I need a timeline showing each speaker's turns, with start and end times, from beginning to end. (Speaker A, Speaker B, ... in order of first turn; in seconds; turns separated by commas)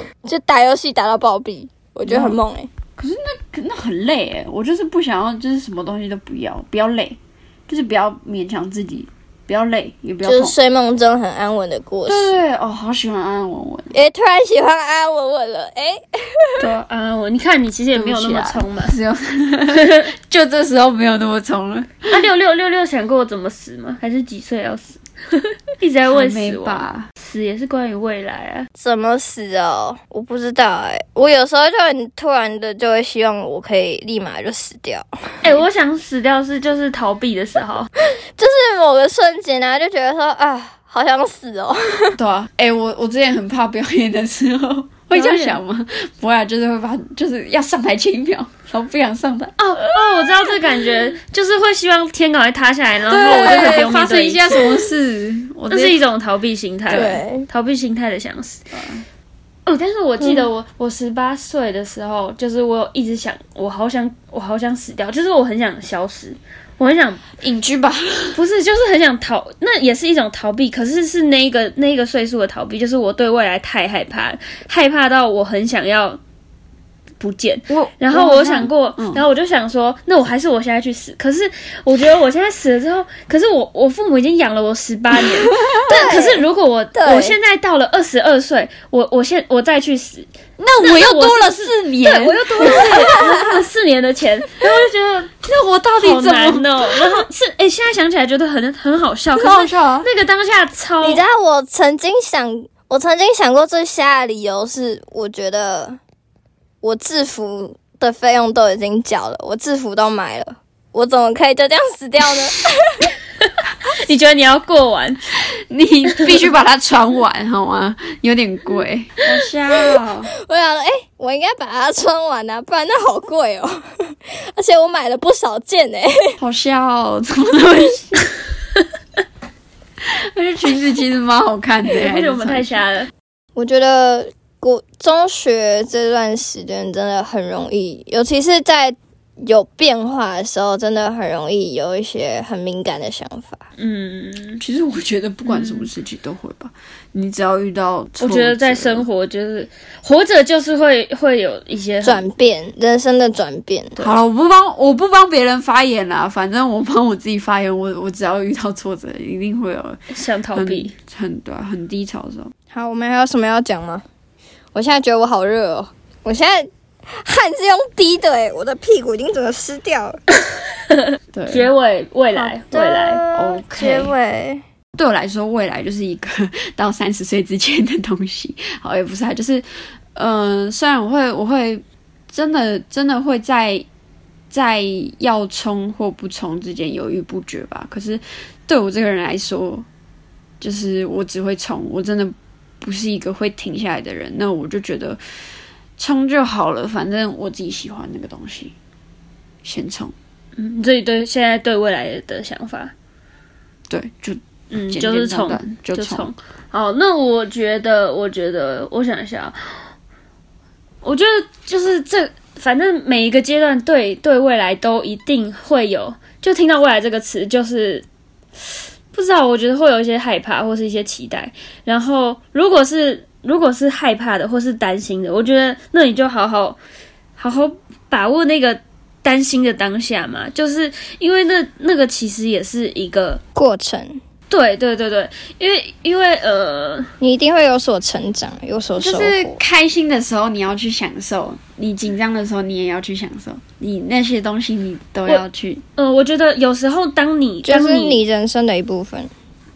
Speaker A: 0.2-2.7, Speaker B: 2.0-2.4, Speaker B: 3.0-10.6, Speaker A: 10.2-12.3, Speaker B: 12.1-13.9, Speaker A: 13.9-16.7, Speaker C: 16.6-18.9, Speaker B: 17.9-22.2, Speaker C: 19.7-20.1, Speaker C: 22.1-28.7, Speaker B: 26.1-27.1, Speaker A: 28.8-35.6, Speaker C: 35.4-37.9, Speaker A: 38.4-42.2, Speaker B: 42.2-50.3, Speaker C: 45.1-45.6, Speaker C: 49.6-54.8, Speaker B: 53.1-56.0, Speaker C: 55.7-58.6, Speaker B: 56.9-57.2, Speaker A: 56.9-57.5, Speaker B: 58.7-59.0, Speaker C: 59.6-67.2, Speaker B: 67.4-68.4, Speaker C: 68.3-76.2, Speaker C: 77.2-90.3, Speaker B: 77.7-79.2, Speaker A: 85.8-87.3, Speaker B: 90.6-93.6, Speaker C: 90.8-95.4, Speaker B: 95.4-97.2, Speaker C: 96.0-101.2, Speaker B: 99.3-100.1, Speaker A: 101.0-106.0, Speaker A: 106.8-113.1, Speaker C: 113.8-115.2, Speaker B: 115.7-120.3, Speaker A: 119.7-126.4, Speaker B: 126.4-128.3, Speaker B: 130.0-132.8, Speaker C: 131.9-133.1, Speaker A: 133.6-143.6, Speaker C: 143.8-144.6, Speaker B: 144.6-149.1, Speaker C: 145.5-145.9, Speaker C: 148.2-152.2, Speaker A: 152.0-154.0, Speaker B: 154.0-160.0, Speaker C: 160.1-160.9, Speaker B: 160.5-162.5, Speaker A: 162.7-164.0, Speaker A: 164.7-170.2, Speaker C: 170.9-173.2, Speaker B: 171.3-171.7, Speaker A: 172.3-174.6, Speaker B: 173.3-174.1, Speaker B: 174.9-183.8, Speaker B: 184.5-189.9, Speaker B: 190.6-195.2, Speaker B: 196.0-198.7, Speaker B: 199.6-200.1, Speaker C: 200.6-202.9, Speaker B: 203.9-206.3, Speaker C: 204.7-209.5, Speaker C: 211.0-218.0, Speaker C: 219.1-226.8, Speaker C: 227.4-233.4, Speaker A: 233.6-234.2, Speaker C: 234.5-237.1, Speaker A: 237.2-239.5, Speaker B: 239.0-245.8, Speaker C: 246.0-248.2, Speaker A: 247.6-249.3